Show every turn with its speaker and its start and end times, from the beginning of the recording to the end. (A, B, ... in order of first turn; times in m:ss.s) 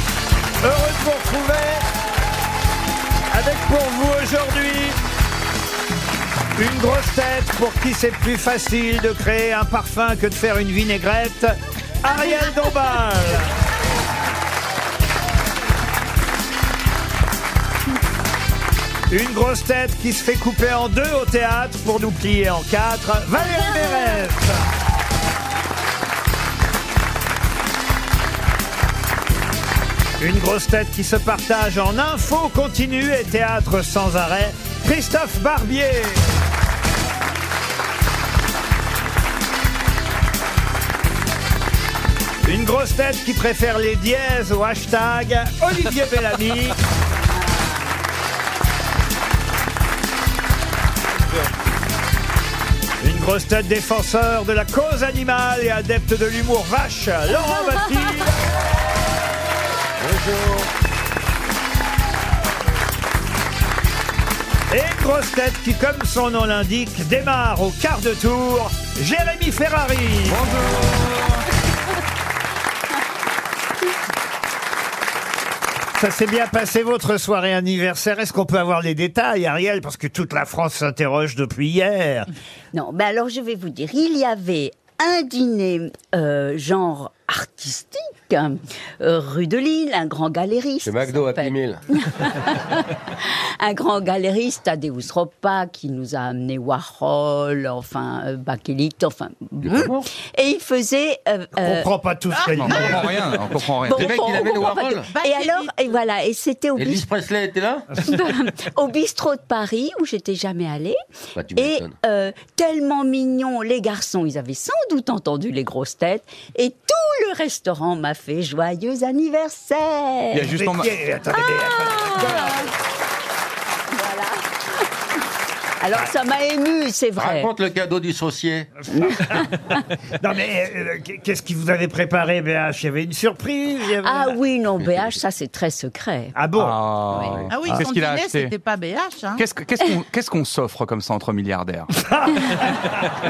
0:00.6-0:01.8 A
0:03.3-0:05.0 A
0:06.6-0:13.5 A
0:19.1-0:24.6 A
0:30.2-0:36.2 A
0:42.4-0:46.8 A
0:53.0-0:58.4 A
1:00.0-1:00.7 B
1:04.7-1:10.5 A
1:10.3-1:11.4 C
1:15.9-1:22.3 A
1:22.7-1:41.9 D
1:30.8-1:31.8 B
1:39.6-1:40.1 B
1:41.6-1:43.2 A
1:42.6-1:44.1 C
1:43.8-1:47.0 D
1:43.9-1:45.1 B
1:45.1-1:45.8 E
1:46.8-1:47.9 B
1:48.0-1:51.0 D
1:51.3-1:51.9 B
1:51.6-2:00.5 D
2:00.3-2:00.9 C
2:00.4-2:02.7 A
2:01.4-2:02.6 D
2:03.9-2:04.4 D
2:05.8-2:07.5 D
2:07.2-2:08.7 B
2:08.9-2:09.6 D
2:09.0-2:09.5 A
2:10.2-2:14.4 A
2:14.0-2:16.4 D
2:14.8-2:15.1 B
2:16.3-2:16.8 A
2:16.6-2:18.5 C
2:17.1-2:17.4 D
2:17.5-2:19.4 E
2:19.4-2:21.9 C
2:22.1-2:22.4 A